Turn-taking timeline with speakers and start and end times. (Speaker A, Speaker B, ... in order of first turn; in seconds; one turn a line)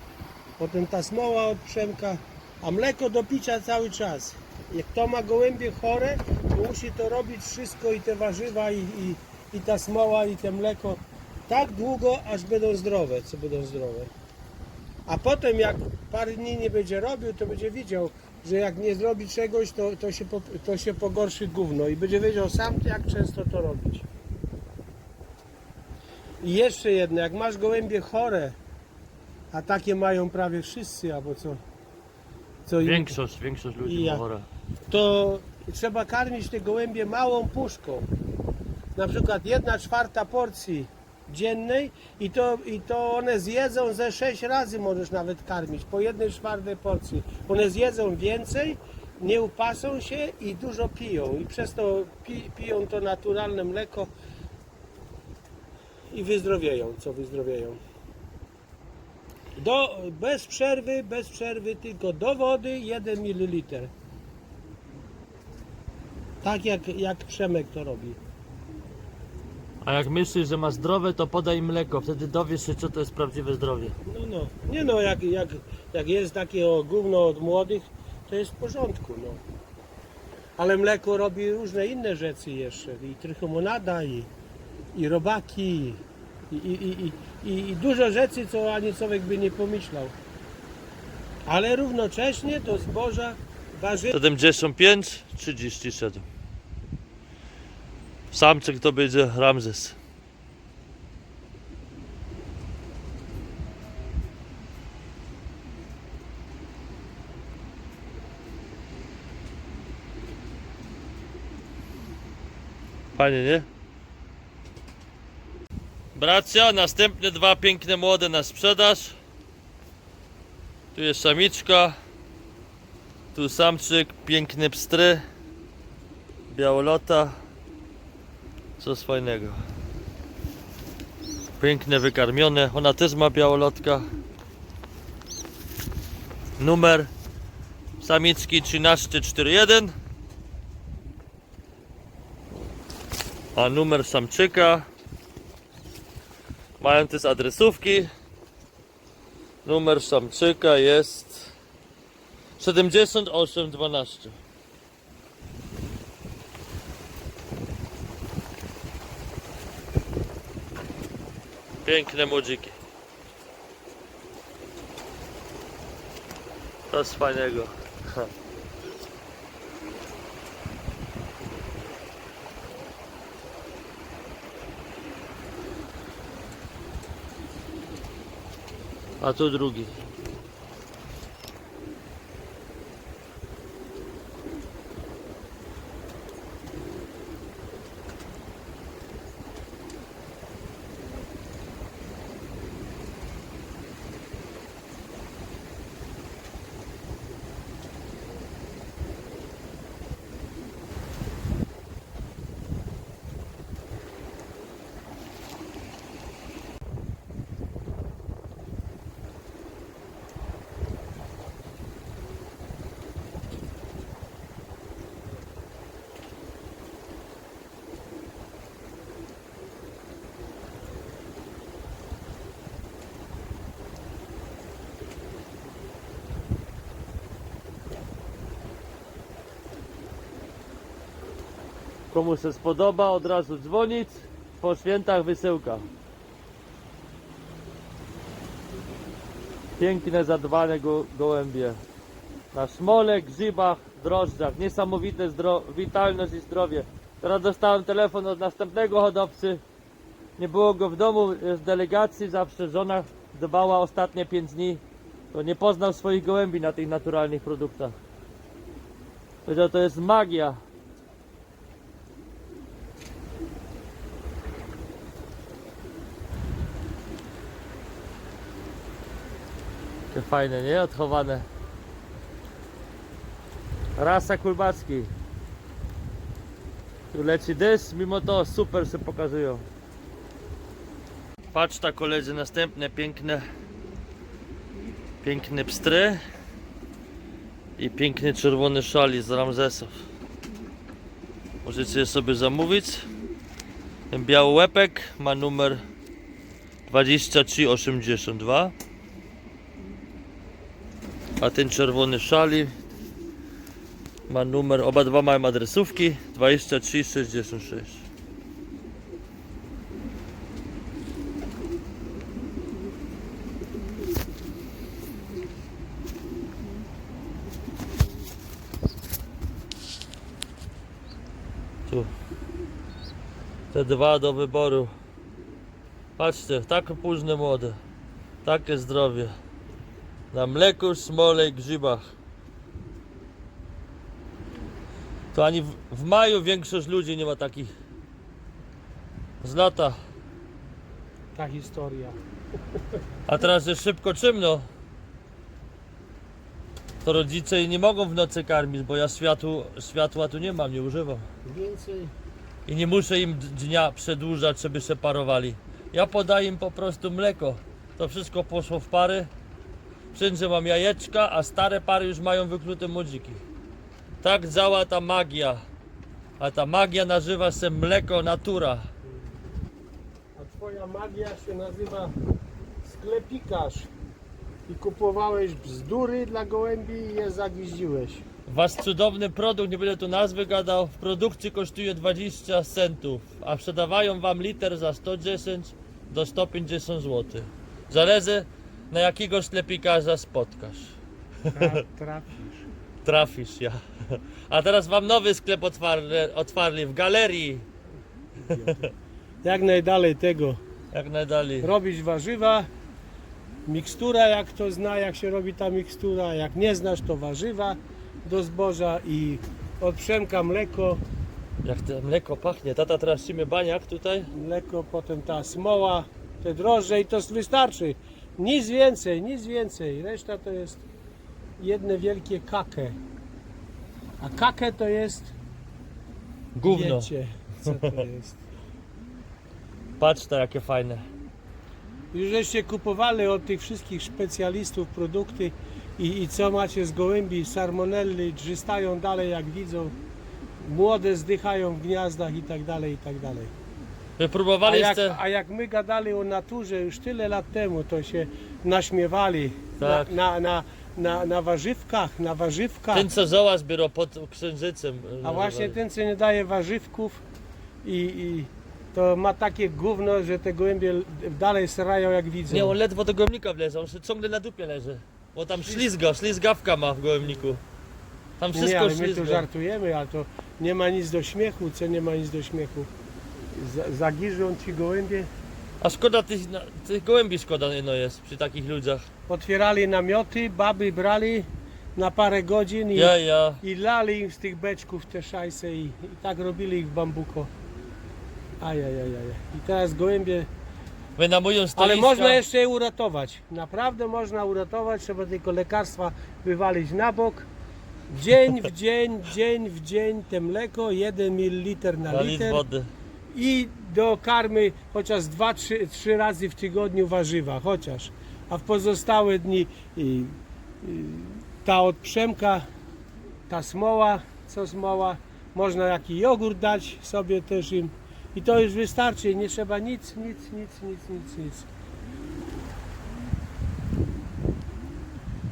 Speaker A: 0.6-14.1
Speaker A: 15.1-24.1
Speaker A: 26.4-28.6
Speaker A: 29.5-31.6
Speaker A: 32.7-33.2
Speaker B: 32.8-34.5
Speaker A: 33.9-34.2
Speaker A: 34.9-38.1
Speaker A: 39.0-54.1
Speaker A: 56.1-57.8
Speaker A: 59.6-63.9
Speaker A: 66.4-68.2
Speaker B: 69.8-74.0
Speaker A: 74.0-79.4
Speaker A: 80.6-84.3
Speaker A: 84.9-90.1
Speaker A: 91.5-94.2
Speaker B: 94.1-96.3
Speaker B: 98.3-100.0
Speaker B: 113.2-113.7
Speaker B: 116.2-119.2
Speaker B: 121.0-122.0
Speaker B: 123.3-125.2
Speaker B: 126.5-127.4
Speaker B: 128.8-129.6
Speaker B: 131.6-134.1
Speaker B: 136.6-137.1
Speaker B: 138.0-139.9
Speaker B: 143.6-144.9
Speaker B: 146.8-148.1
Speaker B: 149.7-151.5
Speaker B: 152.6-154.4
Speaker B: 161.8-162.8
Speaker B: 166.9-168.3
Speaker B: 179.2-179.9
Speaker B: 232.1-235.9
Speaker B: 239.8-241.8
Speaker B: 242.5-249.6
Speaker B: 250.4-254.8
Speaker B: 255.3-258.0
Speaker B: 259.5-260.6
Speaker B: 270.1-271.5
Speaker B: 274.0-275.1
Speaker B: 277.1-279.7
Speaker B: 281.5-283.4
Speaker B: 285.2-286.2
Speaker B: 287.8-289.9
Speaker B: 291.6-293.1
Speaker B: 294.1-295.8
Speaker B: 296.9-298.7
Speaker B: 301.4-302.7
Speaker B: 304.3-308.1
Speaker B: 323.7-324.9
Speaker B: 326.2-327.8
Speaker B: 328.4-329.3
Speaker B: 330.3-332.1
Speaker B: 335.3-337.7
Speaker B: 339.4-340.0
Speaker A: 341.4-342.2
Speaker B: 343.3-344.7
Speaker B: 347.0-351.2
Speaker A: 351.4-352.1
Speaker B: 352.7-359.3
Speaker B: 360.1-363.4
Speaker B: 364.2-365.6
Speaker B: 366.4-368.9
Speaker A: 369.1-369.3
Speaker A: 370.4-372.1
Speaker A: 372.8-373.9
Speaker A: 374.7-378.2
Speaker B: 378.5-391.0
Speaker A: 391.5-392.7
Speaker B: 393.0-397.7
Speaker A: 398.4-398.9
Speaker B: 398.5-398.8
Speaker A: 399.4-400.6
Speaker B: 400.9-401.7
Speaker A: 401.6-402.7
Speaker A: 403.7-411.0
Speaker B: 411.6-414.3
Speaker A: 414.3-420.9
Speaker A: 421.6-423.0
Speaker A: 424.2-425.3
Speaker B: 426.6-427.1
Speaker A: 426.6-428.4
Speaker B: 430.0-431.1
Speaker A: 432.1-440.0
Speaker A: 440.6-443.5
Speaker B: 444.2-445.2
Speaker A: 444.6-453.1
Speaker B: 449.8-450.1
Speaker B: 452.9-455.8
Speaker A: 455.2-457.2
Speaker A: 457.8-462.8
Speaker B: 462.5-467.6
Speaker A: 465.6-465.9
Speaker B: 468.4-469.5
Speaker A: 468.5-472.9
Speaker A: 473.5-475.3
Speaker B: 475.8-479.1
Speaker A: 479.3-487.5
Speaker B: 482.9-483.6
Speaker A: 488.6-490.5
Speaker B: 491.2-492.4
Speaker A: 491.8-497.5
Speaker A: 498.1-502.6
Speaker B: 502.1-502.9
Speaker A: 503.3-512.6
Speaker A: 513.5-521.7